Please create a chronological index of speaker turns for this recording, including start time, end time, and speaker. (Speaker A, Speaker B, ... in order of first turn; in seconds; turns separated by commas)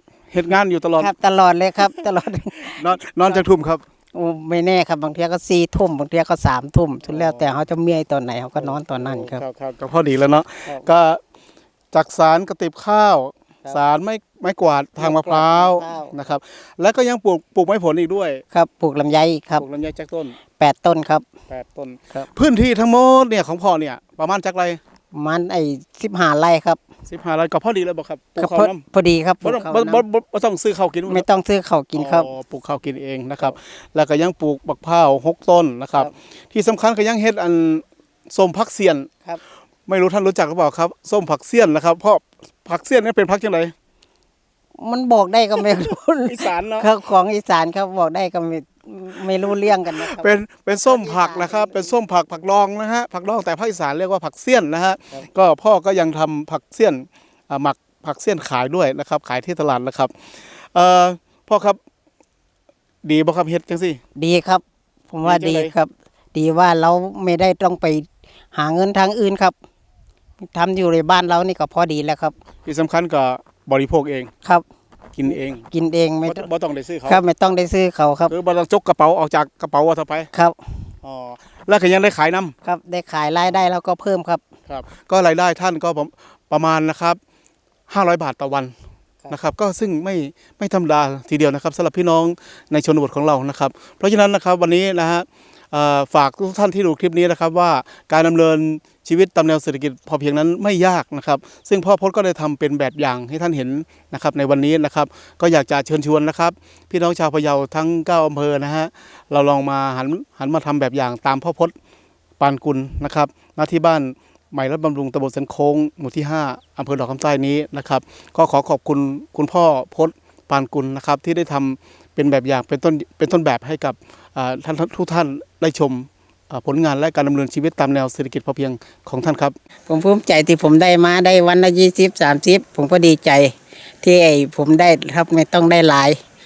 Speaker A: 0.3-1.1, Speaker B: 1.0-3.4, Speaker A: 2.6-3.8, Speaker B: 4.1-9.4, Speaker A: 7.1-7.5, Speaker A: 8.6-11.2, Speaker A: 11.9-18.4, Speaker B: 15.0-16.1, Speaker B: 18.5-19.6, Speaker A: 19.5-20.4, Speaker B: 20.6-21.3, Speaker A: 21.5-24.8, Speaker B: 25.1-26.8, Speaker A: 27.1-28.8, Speaker B: 28.4-30.0, Speaker A: 29.4-31.2, Speaker B: 31.1-32.3, Speaker A: 31.9-39.1, Speaker A: 39.9-43.7, Speaker B: 44.8-51.9, Speaker A: 46.2-46.9, Speaker A: 49.8-61.8, Speaker A: 63.0-64.0, Speaker B: 64.2-69.5, Speaker A: 65.2-65.7, Speaker B: 70.4-72.4, Speaker A: 72.6-74.3, Speaker A: 75.1-75.7, Speaker B: 75.7-76.5, Speaker A: 76.2-77.2, Speaker B: 77.0-78.3, Speaker A: 78.3-80.3, Speaker B: 80.3-80.8, Speaker A: 81.0-82.5, Speaker B: 82.6-84.4, Speaker A: 84.7-87.2, Speaker A: 87.9-88.7, Speaker A: 89.3-111.7, Speaker A: 112.4-129.5, Speaker B: 129.9-136.2